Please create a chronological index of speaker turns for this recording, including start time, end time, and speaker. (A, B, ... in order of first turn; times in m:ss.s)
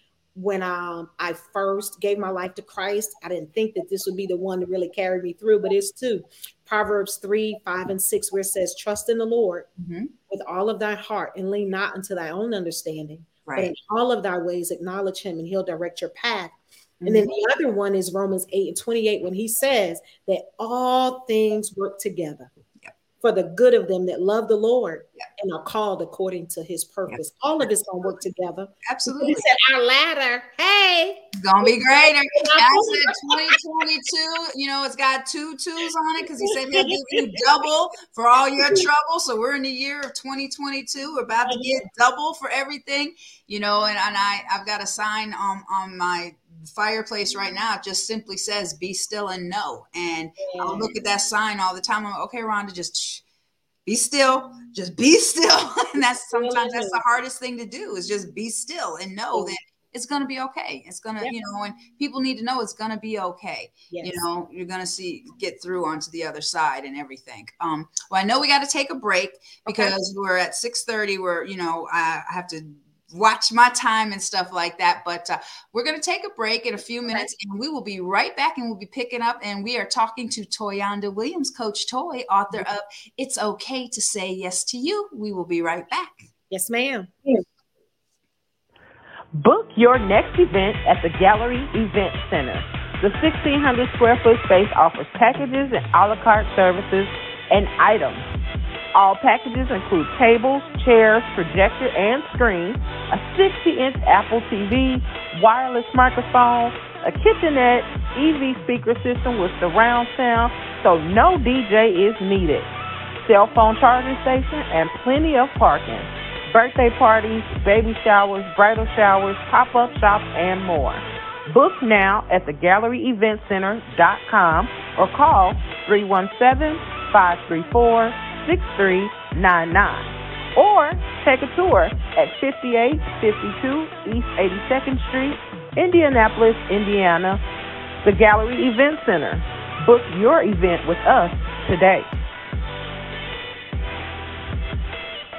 0:00.4-0:09.7 A
0:09.8-0:10.1 B
0:10.3-0:16.6 A
0:13.5-0:13.7 B
0:17.0-0:17.3 B
0:17.1-0:22.5 A
0:23.2-0:31.3 A
0:28.8-0:29.5 B
0:31.4-0:53.2 B
0:32.4-0:33.6 A
0:36.5-0:37.2 A
0:41.5-0:41.7 A
0:50.4-0:50.9 A
0:53.9-1:26.3 B
0:56.3-0:57.0 A
1:03.9-1:04.2 A
1:09.7-1:10.0 A
1:26.5-1:27.3 A
1:29.4-1:38.3 C
1:38.9-1:52.7 C
1:53.2-2:17.4 C
2:18.0-2:22.1 C